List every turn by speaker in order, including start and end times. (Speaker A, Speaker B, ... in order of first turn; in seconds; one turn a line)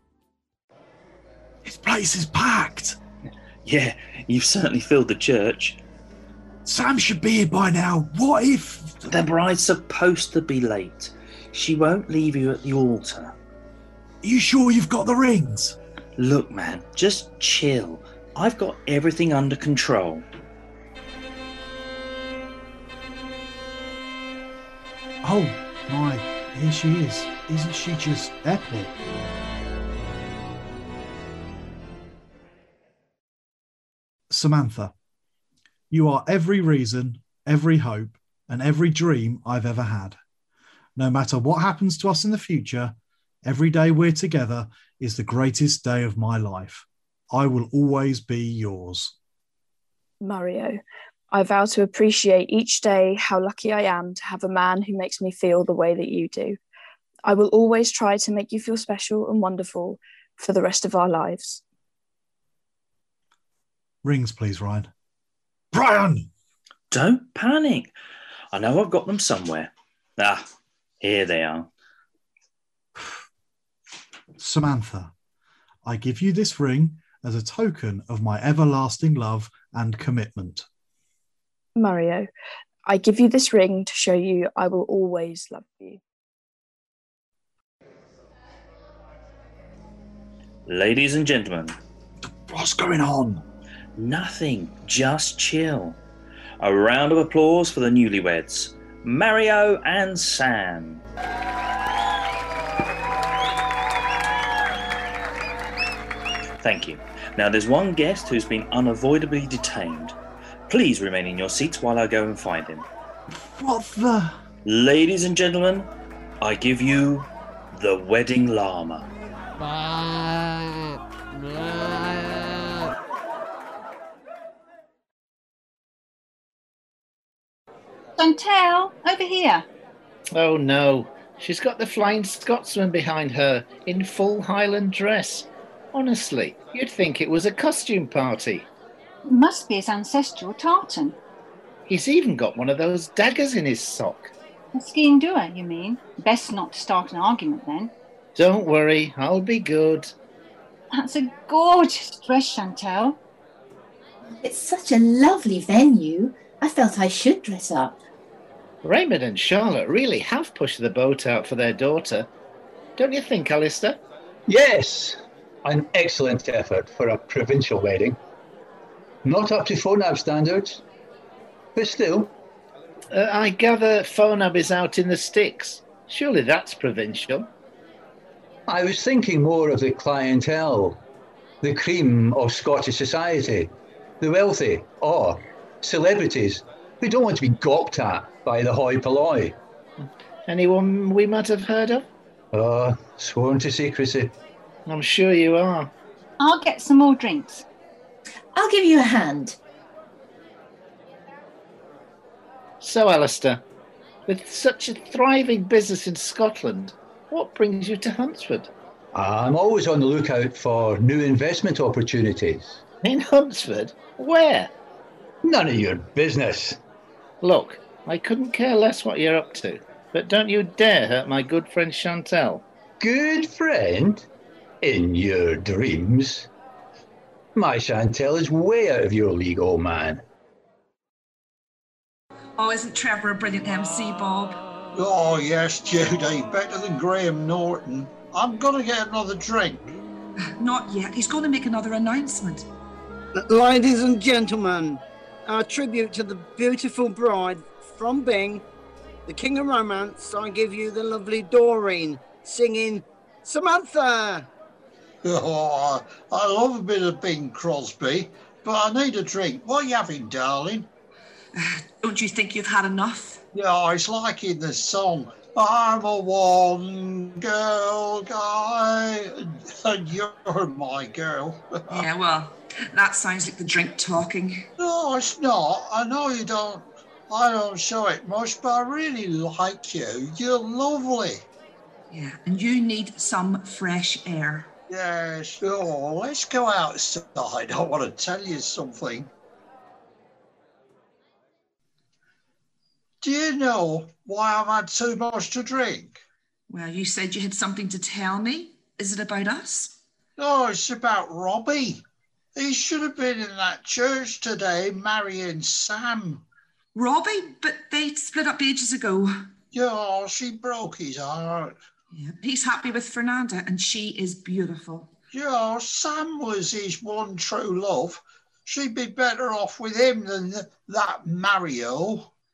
Speaker A: 1.6-3.0
Speaker B: 3.6-5.8
Speaker A: 6.7-9.0
Speaker B: 9.1-13.3
Speaker A: 14.2-15.8
Speaker B: 16.2-20.2
Speaker A: 25.2-28.9
Speaker A: 34.3-34.9
Speaker A: 35.9-40.1
Speaker A: 41.0-49.1
Speaker C: 50.2-50.8
Speaker C: 51.3-56.6
Speaker C: 57.3-61.6
Speaker A: 64.0-64.9
Speaker A: 65.7-66.3
Speaker B: 66.9-67.9
Speaker B: 68.5-70.4
Speaker B: 71.0-71.7
Speaker A: 74.4-75.1
Speaker A: 75.8-80.7
Speaker C: 81.8-82.3
Speaker C: 82.9-86.0
Speaker B: 90.7-91.8
Speaker A: 92.5-93.4
Speaker B: 94.0-96.0
Speaker B: 96.6-101.0
Speaker B: 106.6-110.2
Speaker B: 110.7-112.8
Speaker A: 113.4-114.3
Speaker B: 114.7-115.9
Speaker B: 116.4-119.1
Speaker D: 128.2-129.7
Speaker E: 130.3-138.7
Speaker D: 139.3-141.2
Speaker E: 141.9-144.3
Speaker D: 144.7-147.9
Speaker E: 148.3-150.1
Speaker D: 150.9-153.2
Speaker F: 154.3-157.9
Speaker E: 158.8-162.3
Speaker E: 163.0-164.0
Speaker G: 164.5-168.2
Speaker G: 169.2-170.8
Speaker G: 171.8-172.3
Speaker E: 173.1-177.5
Speaker G: 178.7-181.0
Speaker G: 181.6-189.6
Speaker E: 190.5-192.1
Speaker G: 192.5-194.3
Speaker E: 194.9-195.9
Speaker D: 196.4-197.6
Speaker F: 198.5-199.6
Speaker E: 202.8-203.6
Speaker E: 204.3-208.7
Speaker G: 209.1-212.8
Speaker E: 213.0-214.7
Speaker G: 215.4-216.8
Speaker E: 217.4-222.6
Speaker G: 223.0-224.2
Speaker G: 224.8-226.5
Speaker G: 227.6-230.2
Speaker H: 232.6-234.6
Speaker I: 234.9-239.9
Speaker H: 240.6-242.7
Speaker J: 243.4-248.6
Speaker J: 249.3-254.5
Speaker I: 255.2-260.9
Speaker H: 261.6-263.4
Speaker I: 263.5-271.7
Speaker H: 271.9-274.7
Speaker I: 274.8-281.4
Speaker H: 282.1-284.7
Speaker I: 284.9-289.3
Speaker I: 293.2-296.2
Speaker H: 296.7-300.0
Speaker I: 300.4-302.0
Speaker I: 302.6-306.4
Speaker H: 306.9-309.3
Speaker I: 309.7-311.7
Speaker H: 312.1-315.1
Speaker I: 315.3-322.3